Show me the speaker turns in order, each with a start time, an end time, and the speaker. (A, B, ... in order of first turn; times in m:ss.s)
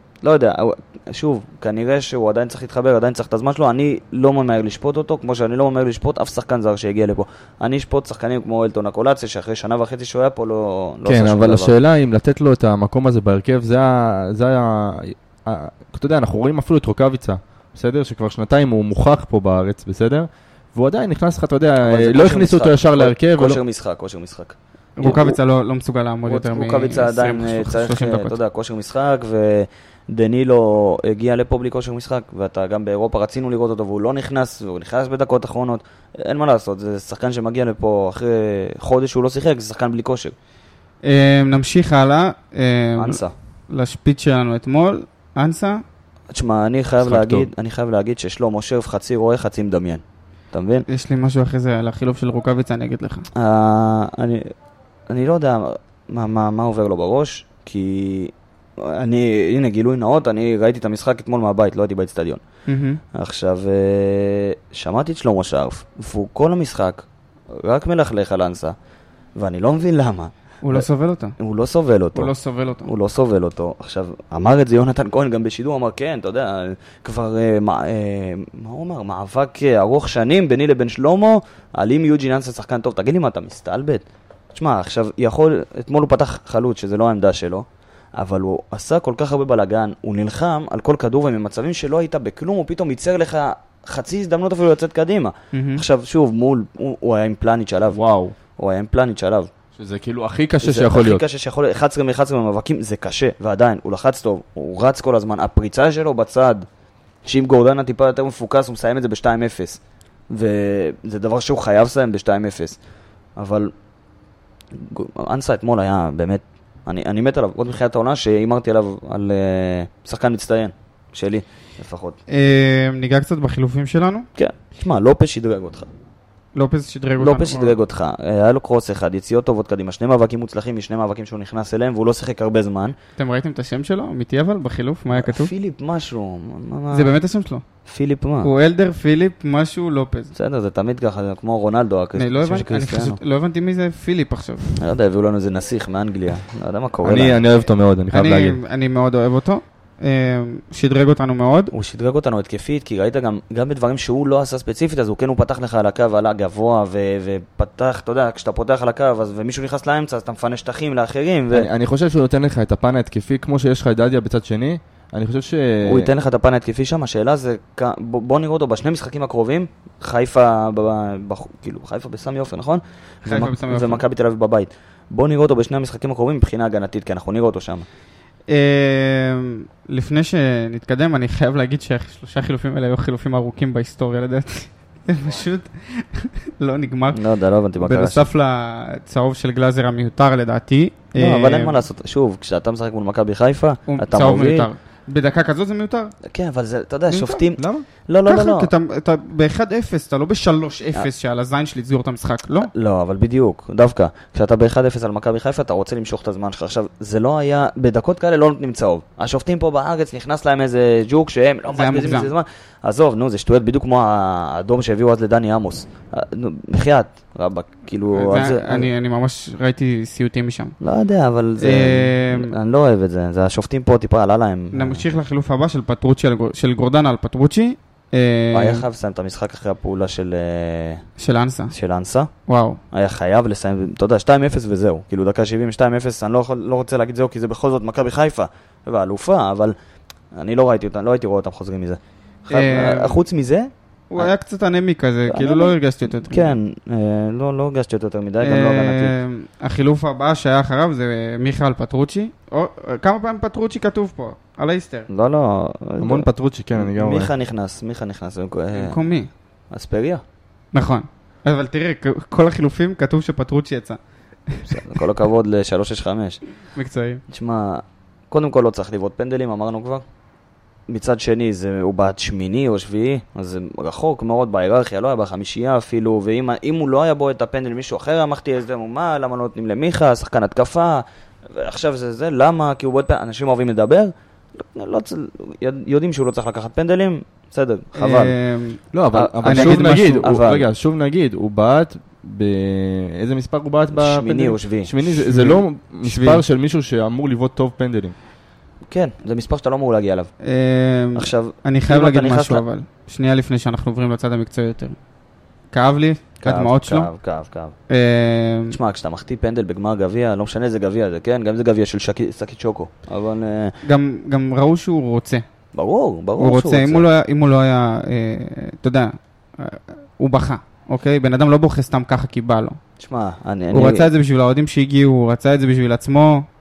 0:00.2-0:11.7 A
0:11.0-0:23.6 B
0:21.8-0:25.4 A
0:25.0-0:28.4 C
0:26.3-0:40.3 A
0:41.0-0:45.8 C
0:43.0-0:43.3 A
0:46.3-0:50.8 A
0:47.0-0:47.5 B
0:50.9-0:53.3 C
0:53.3-0:54.5 A
0:55.1-1:02.4 A
1:02.6-1:03.0 C
1:03.1-1:08.8 A
1:09.4-1:10.9 A
1:10.6-1:11.4 C
1:11.4-1:12.3 A
1:12.1-1:12.9 C
1:12.8-1:38.0 A
1:35.5-1:35.8 C
1:37.9-1:38.3 B
1:38.6-1:39.5 A
1:39.8-1:41.2 B
1:40.6-1:46.6 A
1:47.2-1:52.8 A
1:53.4-1:53.7 A
1:54.7-2:02.2 A
2:02.3-2:04.3 C
2:04.4-2:05.9 A
2:06.5-2:07.7 C
2:07.2-2:12.9 A
2:13.2-2:15.5 C
2:15.1-2:17.2 A
2:16.9-2:17.6 C
2:17.9-2:18.5 A
2:18.4-2:20.3 C
2:20.3-2:23.2 A
2:22.2-2:24.8 C
2:24.8-2:27.4 A
2:27.0-2:28.6 B
2:28.1-2:31.7 C
2:31.7-2:41.7 A
2:41.5-2:46.1 B
2:45.8-2:57.8 A
2:53.2-2:54.0 C
2:58.5-3:07.2 C
3:07.1-3:08.2 A
3:07.8-3:11.8 C
3:11.2-3:14.7 A
3:13.9-3:16.1 C
3:16.2-3:18.7 A
3:17.1-3:17.4 C
3:17.6-3:17.9 B
3:18.2-3:22.7 C
3:22.7-3:38.9 A
3:31.7-3:32.3 C
3:38.1-3:40.8 C
3:40.8-3:45.0 A
3:41.6-3:42.5 C
3:44.7-3:48.8 C
3:48.5-3:51.0 A
3:51.2-3:51.7 C
3:51.7-3:52.3 A
3:52.5-3:52.8 C
3:52.9-3:59.7 A
4:00.3-4:04.3 A
4:02.5-4:03.2 C
4:04.1-4:06.5 C
4:05.3-4:09.1 A
4:08.4-4:15.1 C
4:15.1-4:19.0 A
4:16.0-4:17.3 B
4:18.7-4:19.3 C
4:19.7-4:20.2 A
4:20.7-4:24.7 C
4:24.6-4:26.4 A
4:26.7-4:27.2 C
4:27.3-4:30.0 A
4:30.9-4:48.3 A
4:48.0-4:48.9 C
4:48.9-4:58.1 B
4:49.1-4:50.6 A
4:49.4-4:50.0 C
4:53.9-4:54.9 A
4:55.1-4:56.4 C
4:58.9-5:00.3 A
5:00.4-5:04.9 C
5:01.1-5:02.6 A
5:05.7-5:07.1 C
5:06.4-5:07.7 A
5:07.9-5:08.8 C
5:08.7-5:13.8 A
5:13.8-5:15.4 C
5:15.7-5:17.0 A
5:16.4-5:22.8 C
5:23.0-5:24.0 A
5:23.7-5:26.4 C